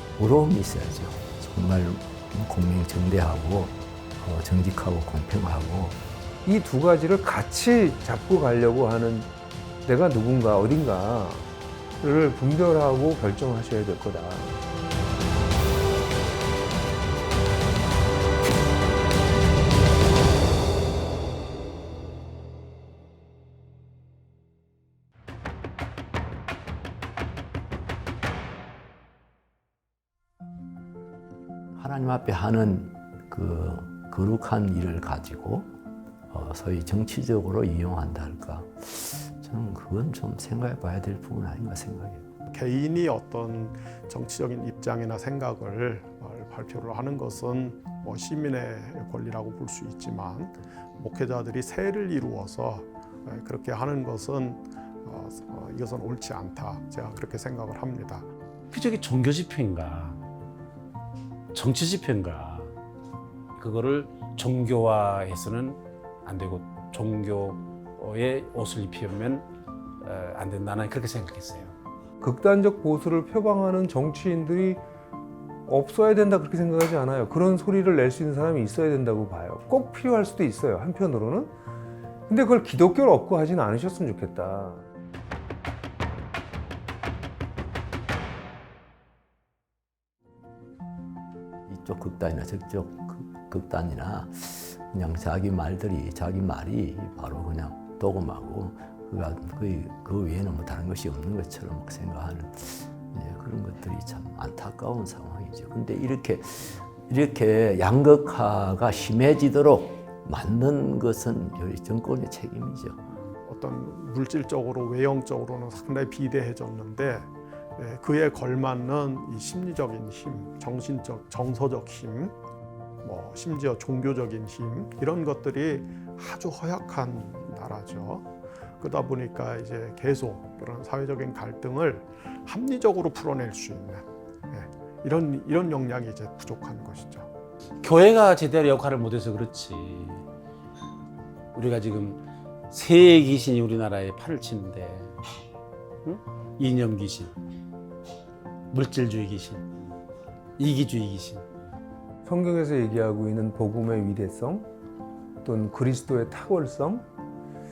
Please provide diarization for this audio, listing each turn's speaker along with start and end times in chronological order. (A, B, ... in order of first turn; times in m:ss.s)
0:00.2-0:06.0 A
0:06.4-0:09.3 B
0:09.8-0:11.5 B
0:12.0-0:14.6 B
0:31.8-0:35.7 A
0:36.3-0:42.3 A
0:42.5-0:58.3 C
0:58.7-1:00.2 D
1:01.5-1:02.7 D
1:03.6-1:09.4 D
1:10.0-1:11.7 D
1:12.2-1:14.8 B
1:15.7-1:21.5 B
1:22.3-1:24.9 B
1:31.7-1:53.0 A
1:53.4-2:02.3 C
2:03.0-2:08.3 C
2:08.8-2:17.3 C
2:17.8-2:20.2 D
2:21.5-2:25.2 D
2:26.0-2:27.3 D
2:28.7-2:29.7 D
2:30.6-2:31.4 D
2:32.2-2:34.7 B
2:35.4-2:37.0 B